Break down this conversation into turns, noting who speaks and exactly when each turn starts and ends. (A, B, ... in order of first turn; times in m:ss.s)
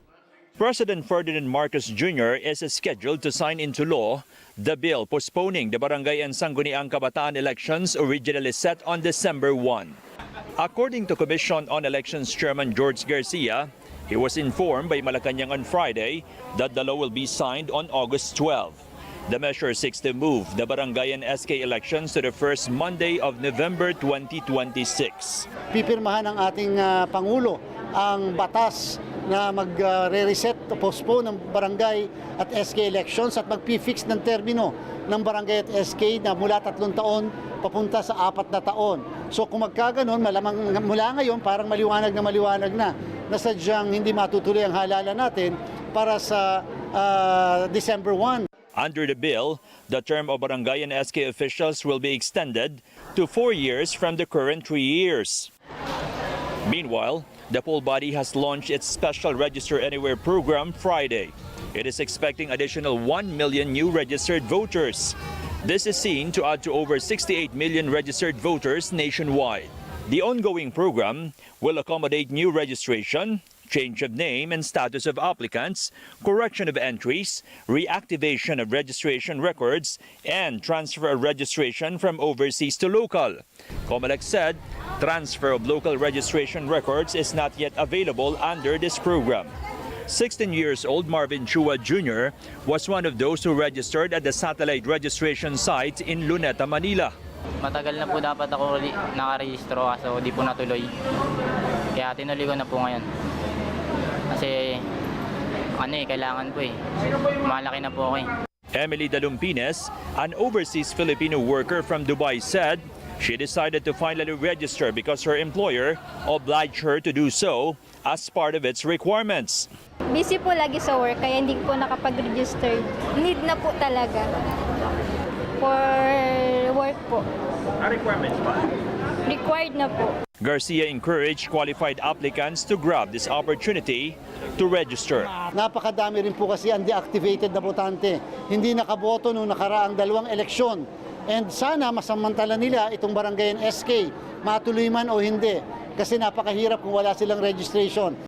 0:00.6-0:10.0 A
0:10.6-0:25.5 A
0:25.7-0:48.4 B
0:48.7-0:55.5 A
0:56.6-1:29.5 A
1:30.1-1:37.1 A
1:37.6-1:40.9 C
1:42.0-1:43.0 C
1:44.3-1:44.8 C
1:45.8-1:46.7 C
1:47.5-1:48.2 C
1:48.7-1:59.7 A
2:00.1-2:04.3 D
2:05.6-2:07.2 D
2:08.0-2:08.5 A
2:09.3-2:10.1 D
2:10.4-2:15.3 A
2:15.5-2:28.2 B